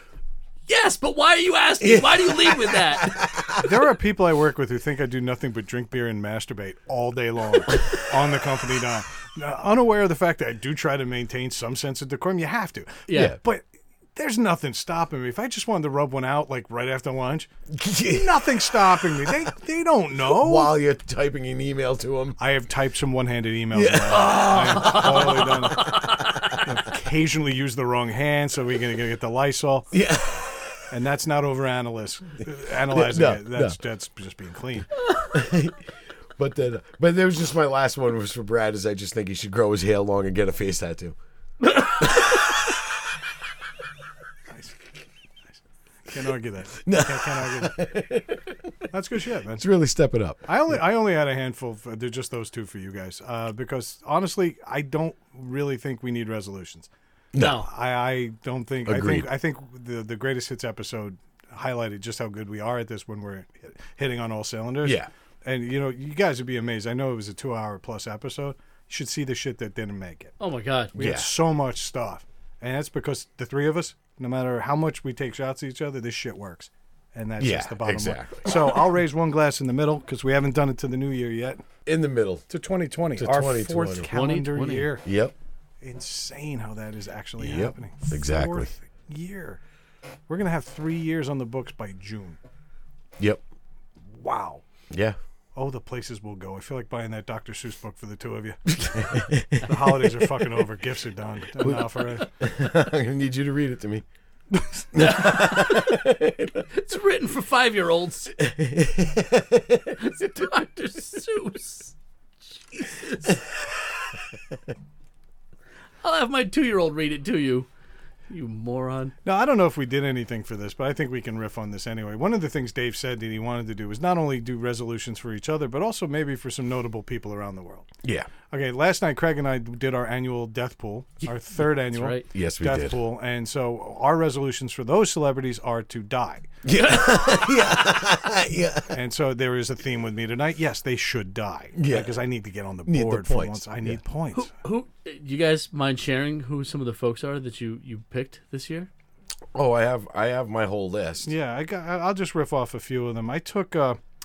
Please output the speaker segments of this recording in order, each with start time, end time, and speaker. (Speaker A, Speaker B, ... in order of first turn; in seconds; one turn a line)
Speaker A: 0.7-3.2
Speaker B: 1.8-3.7
Speaker C: 3.6-17.5
Speaker A: 13.1-13.3
Speaker B: 13.1-13.4
Speaker B: 17.7-18.5
Speaker C: 18.1-20.7
Speaker B: 20.2-22.4
Speaker C: 22.4-26.0
Speaker B: 23.7-26.6
Speaker A: 24.1-26.2
Speaker C: 26.6-29.9
Speaker B: 29.9-30.8
Speaker C: 30.9-34.9
Speaker B: 32.9-33.8
Speaker B: 35.3-41.1
Speaker B: 42.0-42.7
Speaker C: 44.5-44.8
Speaker C: 45.5-47.8
Speaker B: 46.8-48.7
Speaker C: 48.9-49.7
Speaker B: 49.6-50.4
Speaker C: 50.4-56.9
Speaker B: 57.3-57.6
Speaker A: 57.4-57.6
Speaker C: 57.4-70.3
Speaker B: 58.9-59.3
Speaker B: 64.8-65.1
Speaker A: 70.4-70.9
Speaker B: 70.9-71.3
Speaker C: 70.9-81.6
Speaker B: 77.4-78.8
Speaker B: 81.8-82.4
Speaker C: 82.5-85.0
Speaker B: 83.2-84.1
Speaker A: 84.1-84.9
Speaker B: 85.0-85.3
Speaker C: 85.8-89.6
Speaker B: 87.4-88.7
Speaker C: 90.3-92.4
Speaker C: 94.1-94.6
Speaker B: 94.9-95.2
Speaker C: 95.5-102.3
Speaker B: 98.8-100.2
Speaker B: 101.6-104.0
Speaker B: 104.9-106.6
Speaker A: 105.0-106.0
Speaker A: 106.7-108.3
Speaker B: 108.4-110.0
Speaker A: 110.0-111.9
Speaker A: 112.7-113.4
Speaker A: 116.0-117.7
Speaker A: 118.3-119.1
Speaker C: 119.2-127.9
Speaker B: 128.0-128.3
Speaker C: 128.5-136.5
Speaker A: 131.9-132.2
Speaker B: 132.3-133.0
Speaker B: 136.6-138.9
Speaker C: 138.9-144.5
Speaker B: 141.8-142.2
Speaker B: 142.8-144.0
Speaker A: 144.3-148.9
Speaker B: 149.5-151.3
Speaker C: 151.2-154.0